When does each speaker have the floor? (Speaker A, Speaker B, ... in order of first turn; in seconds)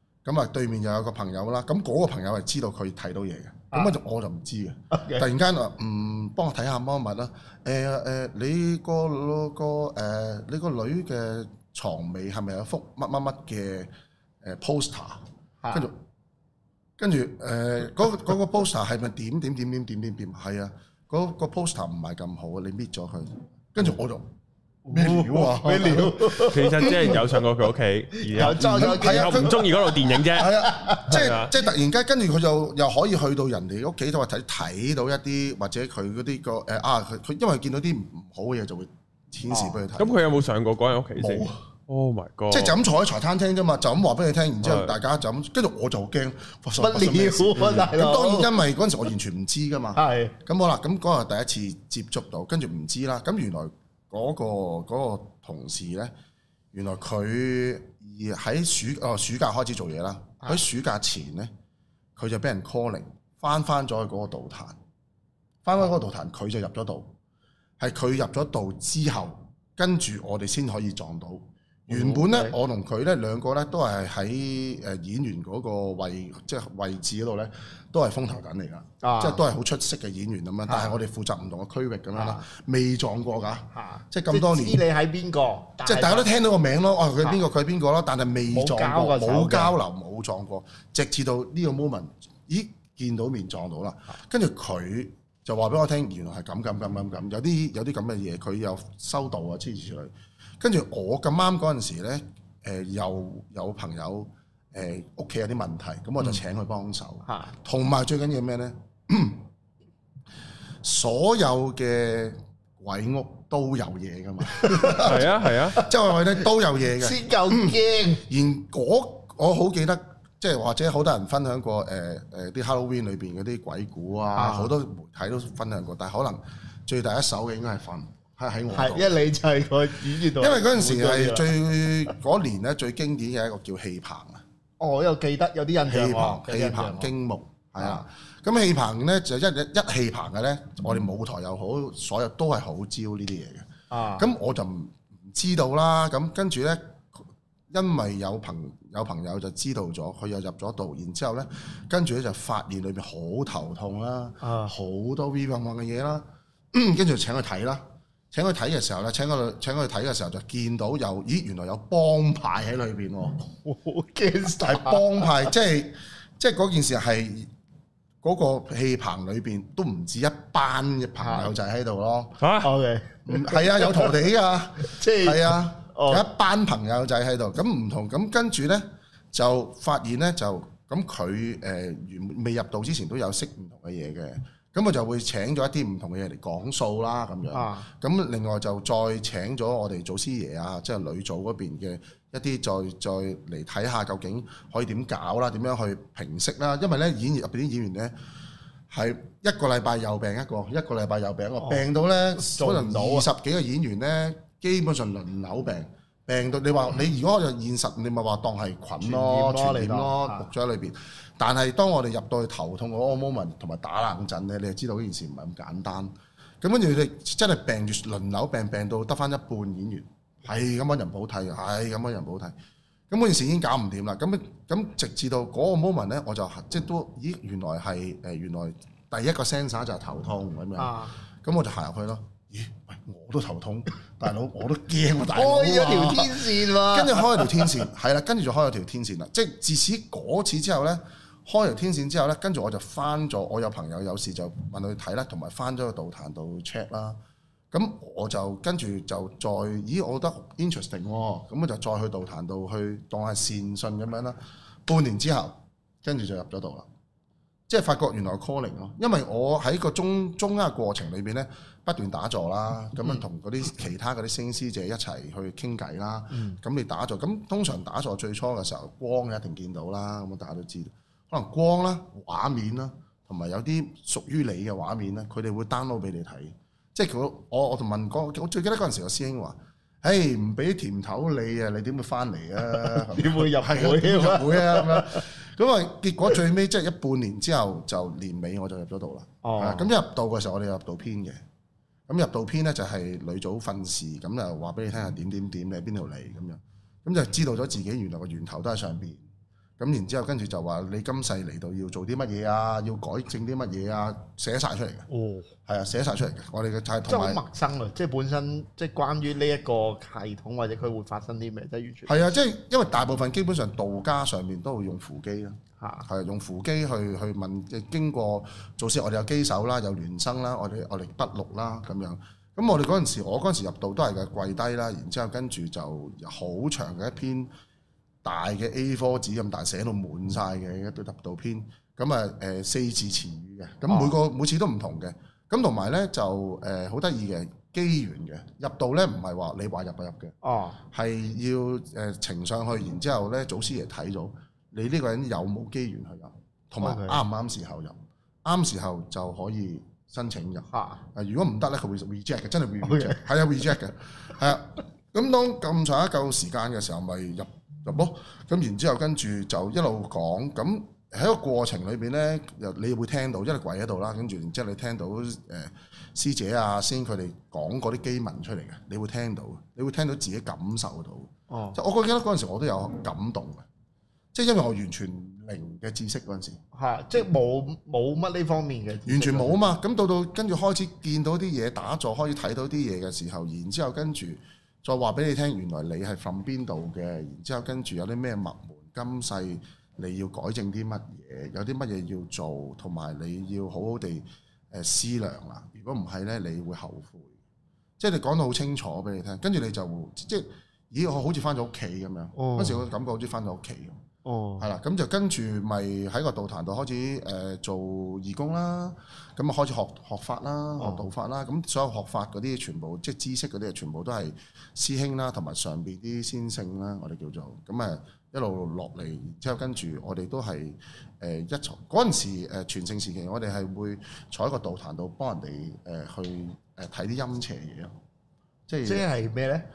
Speaker A: 0.2-13.9, 14.4-16.0, 17.0-24.3, 24.9-27.3, 28.4-29.7, 30.3-40.2, 41.1-41.5, 42.5-56.1, 56.7-61.5, 62.1-64.8, 65.6-67.1, 67.8-84.8, 85.8-109.4, 110.8-117.8, 118.3-129.1, 130.4-134.4, 135.9-163.5, 164.4-167.5, 168.2-172.4, 173.3-198.1, 198.9-222.5, 223.1-247.2, 247.7-256.9, 257.7-291.4, 292.1-299.2, 299.8-305.1, 305.6-307.4, 312.1-327.5, 328.2-373.7, 374.3-376.6, 379.1-397.3, 398.0-404.0, 404.6-427.9, 428.7-429.1
Speaker B: 4.9-5.2, 15.6-15.9, 24.8-27.2, 28.2-31.2, 39.5-39.8, 46.8-48.5, 49.9-50.3, 71.9-72.5, 79.0-79.4, 80.7-81.0, 82.1-82.4, 83.7-86.3, 88.5-89.7, 107.2-107.5, 114.5-115.9, 117.0-118.2, 124.3-124.7, 128.7-131.5, 134.8-137.1, 137.8-138.1, 143.9-144.3, 154.4-154.7, 163.6-165.5, 171.2-171.5, 172.6-174.2, 174.8-176.2, 187.5-187.9, 201.6-201.9, 202.4-203.3, 209.0-210.5, 230.8-231.1, 235.3-237.8, 266.3-266.6, 282.6-285.2, 289.4-289.9, 305.1-305.5, 307.1-312.3, 315.8-316.1, 333.9-334.1, 340.4-340.8, 346.8-347.2, 350.7-351.0, 352.8-353.2, 371.5-371.8, 376.7-379.6, 402.3-402.8, 404.2-404.6, 410.8-411.0, 428.8-429.6
Speaker C: 26.4-31.5, 40.0-42.7, 44.6-44.9, 114.9-115.8, 172.4-172.7